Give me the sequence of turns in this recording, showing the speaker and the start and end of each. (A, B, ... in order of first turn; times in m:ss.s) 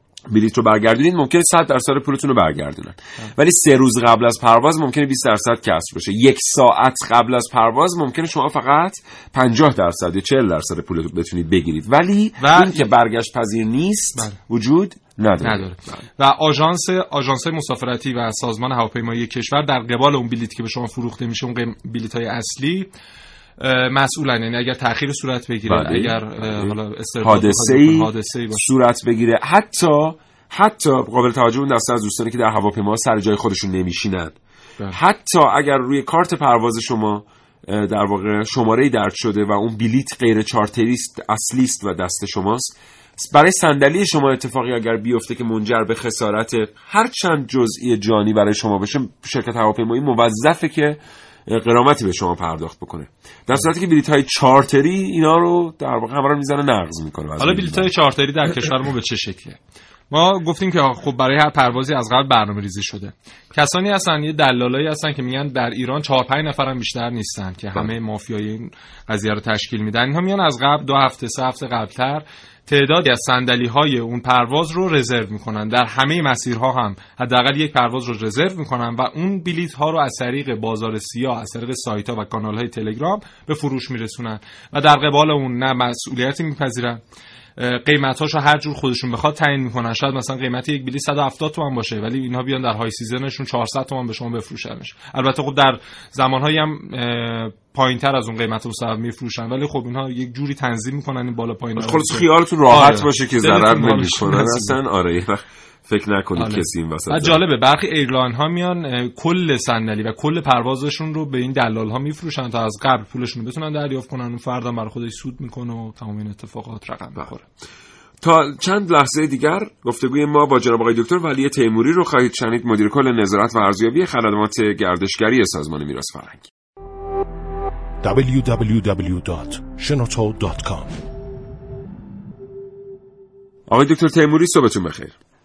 0:00.3-0:16.0 A
0:12.4-0:12.8 B
0:15.4-0:22.9 B
0:23.6-0:28.6 B
0:25.7-0:34.4 A
0:34.9-0:57.9 A
0:57.4-0:59.6 B
1:00.1-1:27.0 B
1:27.6-1:44.8 B
1:41.8-1:47.4 A
1:46.4-1:57.4 B
1:58.2-2:06.5 A
2:08.0-2:11.0 C
2:13.7-2:15.2 A